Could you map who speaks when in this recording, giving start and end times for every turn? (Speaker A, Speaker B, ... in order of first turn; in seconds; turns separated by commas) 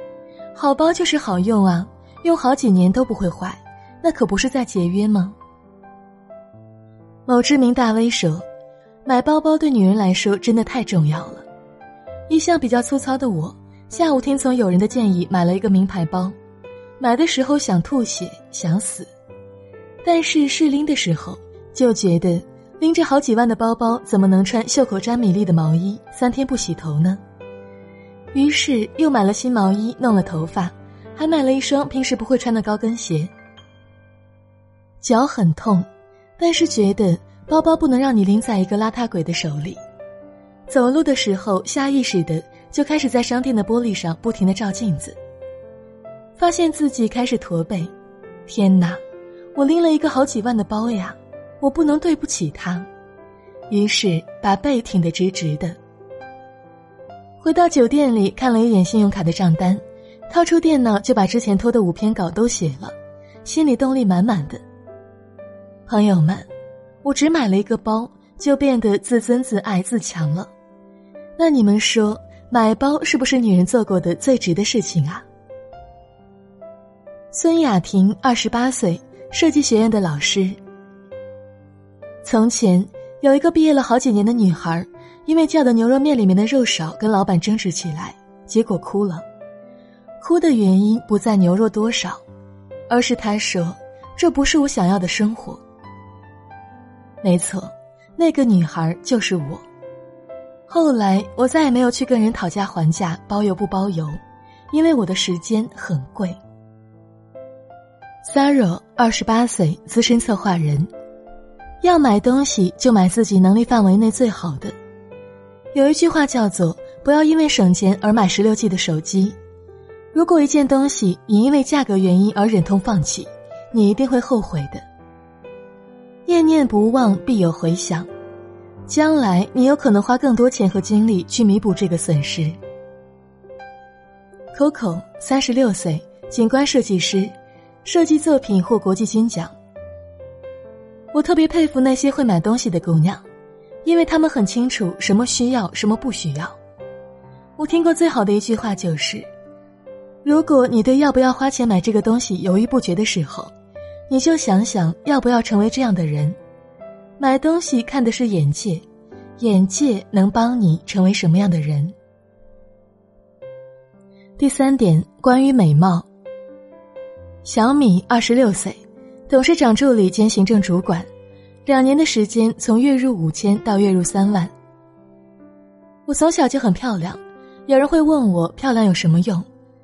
Speaker A: 0.5-5.3, Speaker A: 7.2-8.4, Speaker A: 9.0-11.4, Speaker A: 12.3-16.3, Speaker A: 17.0-19.1, Speaker A: 20.0-27.2, Speaker A: 28.3-33.3, Speaker A: 35.0-35.9, Speaker A: 36.4-39.8, Speaker A: 40.7-45.1, Speaker A: 46.4-47.9, Speaker A: 48.5-49.0, Speaker A: 49.5-52.9, Speaker A: 53.7-55.8, Speaker A: 57.4-62.9, Speaker A: 63.4-64.6, Speaker A: 65.9-66.5, Speaker A: 67.0-70.5, Speaker A: 71.4-75.2, Speaker A: 77.3-80.6, Speaker A: 82.2-89.2, Speaker A: 90.2-92.2, Speaker A: 92.9-95.6, Speaker A: 97.2-99.6, Speaker A: 100.7-104.2, Speaker A: 104.7-106.4, Speaker A: 108.2-110.9, Speaker A: 111.8-114.7, Speaker A: 115.7-119.3, Speaker A: 120.1-124.8, Speaker A: 126.3-128.1, Speaker A: 128.9-132.6, Speaker A: 134.5-137.3, Speaker A: 137.8-139.5, Speaker A: 141.1-143.2, Speaker A: 143.8-146.6, Speaker A: 147.6-149.3, Speaker A: 150.2-153.5, Speaker A: 154.1-156.4, Speaker A: 157.2-158.8, Speaker A: 159.4-161.9, Speaker A: 164.4-166.1, Speaker A: 167.4-171.1, Speaker A: 171.6-174.5, Speaker A: 176.1-179.4